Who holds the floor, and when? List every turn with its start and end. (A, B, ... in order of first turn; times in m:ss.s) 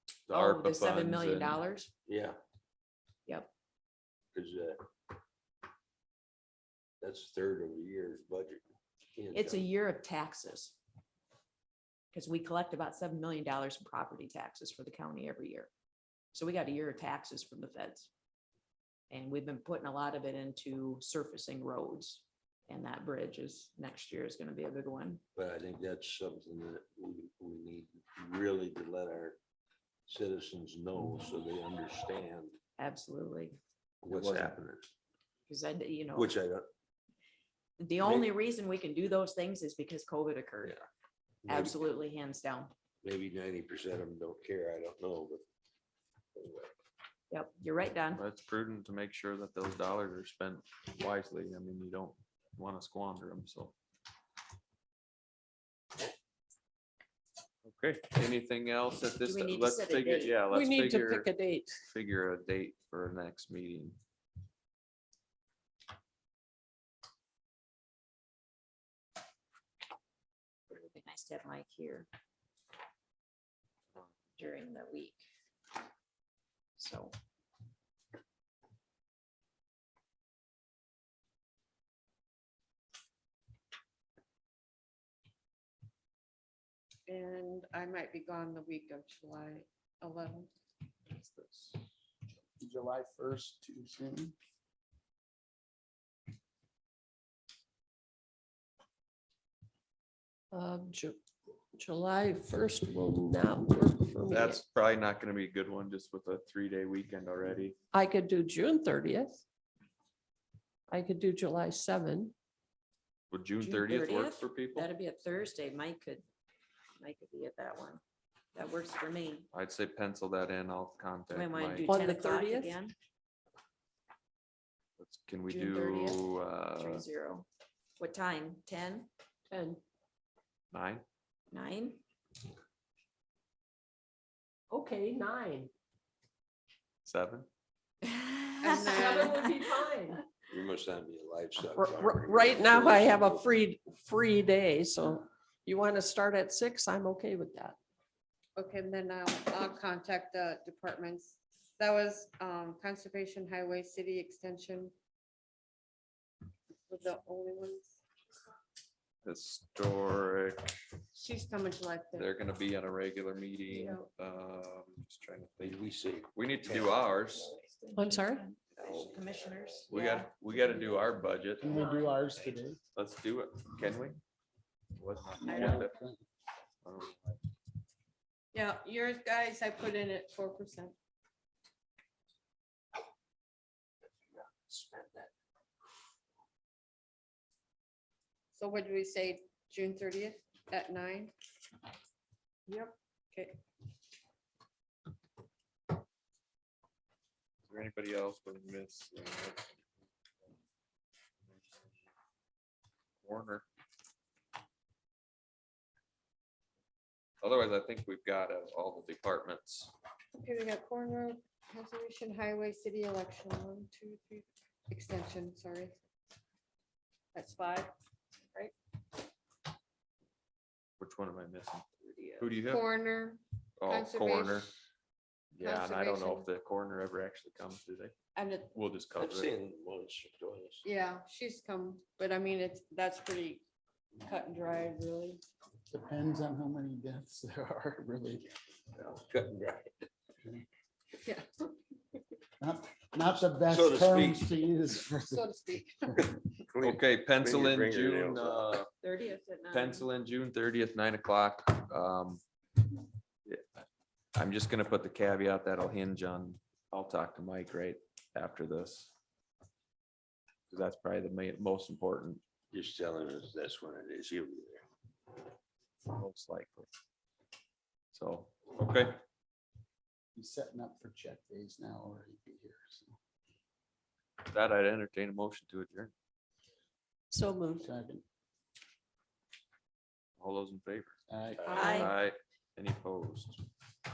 0:00.3-0:01.6 A
0:00.3-0:01.9 B
0:02.1-0:02.4 C
0:03.2-0:03.5 B
0:04.3-0:04.8 C
0:07.0-0:08.6 C
0:09.2-0:09.7 C
0:09.3-0:10.8 B
0:12.1-0:15.7 B
0:16.3-0:18.1 B
0:19.1-0:25.2 B
0:25.4-0:29.4 C
0:30.1-0:32.6 C
0:32.8-0:33.6 B
0:34.0-0:34.9 C
0:34.1-0:34.6 A
0:35.5-0:36.3 B
0:36.1-0:36.7 C
0:37.8-0:40.8 B
0:38.0-0:38.3 C
0:41.5-0:41.8 C
0:41.5-0:42.7 B
0:43.0-0:45.4 C
0:46.3-0:46.7 C
0:47.3-0:48.2 B
0:48.1-0:53.7 A
0:57.6-1:01.3 A
0:59.2-1:00.4 B
1:00.5-1:01.8 D
1:01.8-1:04.0 A
1:10.7-1:12.1 B
1:14.4-1:15.2 B
1:16.8-1:17.1 B
1:27.1-1:30.5 E
1:31.2-1:31.7 F
1:32.6-1:34.3 F
1:40.5-1:41.2 D
1:41.8-1:44.6 D
1:44.3-1:47.8 A
1:47.9-1:49.4 D
1:50.9-1:52.3 D
1:53.3-1:54.9 A
1:53.6-1:56.2 B
1:57.0-1:58.0 B
1:58.5-1:59.5 B
1:59.5-2:01.9 A
2:01.3-2:02.9 B
2:01.8-2:02.8 D
2:05.0-2:07.0 A
2:05.4-2:07.4 B
2:08.0-2:09.1 B
2:09.5-2:09.8 D
2:10.7-2:11.0 A
2:11.5-2:12.0 B
2:14.7-2:15.7 D
2:17.0-2:17.5 A
2:18.0-2:19.6 B
2:18.6-2:19.4 E
2:18.7-2:20.2 D
2:20.5-2:23.6 C
2:21.7-2:27.8 D
2:28.6-2:34.9 E
2:36.9-2:38.0 E
2:39.2-2:40.8 A
2:41.1-2:42.3 E
2:42.1-2:45.8 A
2:43.7-2:44.0 E
2:45.6-2:46.9 C
2:46.3-2:47.5 A
2:47.4-2:51.1 B
2:48.0-2:48.4 D
2:49.9-2:51.7 A
2:51.6-2:52.8 F
2:51.7-2:52.4 B
2:52.9-2:54.2 A
2:55.0-2:55.9 A
2:55.4-2:56.2 F
2:55.4-2:55.9 E
2:56.8-2:57.4 A
2:58.5-3:00.9 E
3:04.3-3:05.3 C
3:08.5-3:11.3 E
3:12.7-3:13.5 E
3:17.7-3:19.8 A
3:23.2-3:23.6 A
3:27.4-3:29.9 A
3:30.4-3:35.9 E
3:37.3-3:37.9 E
3:41.0-3:42.9 A
3:42.4-3:44.7 E
3:43.8-3:44.7 A
3:45.5-3:48.1 A
3:45.6-3:46.5 E
3:48.3-3:48.7 E
3:48.7-3:49.5 A
3:49.1-3:50.8 C
3:50.8-3:53.6 E
3:54.2-3:55.4 E
3:55.9-3:58.5 F
3:59.0-3:59.9 C
4:02.6-4:05.5 F
4:03.7-4:04.5 C
4:05.3-4:06.3 E
4:06.6-4:08.8 C
4:06.8-4:08.9 A
4:09.0-4:10.1 B
4:09.7-4:12.4 A
4:14.3-4:19.1 A
4:20.7-4:22.4 A
4:22.7-4:24.8 C
4:26.1-4:26.9 A
4:28.1-4:29.2 A
4:30.3-4:33.2 F
4:34.5-4:36.1 A
4:37.3-4:37.9 D
4:37.8-4:38.2 F
4:40.4-4:41.2 A
4:41.3-4:41.8 F
4:41.7-4:42.1 D
4:41.7-4:43.6 A
4:41.7-4:42.1 B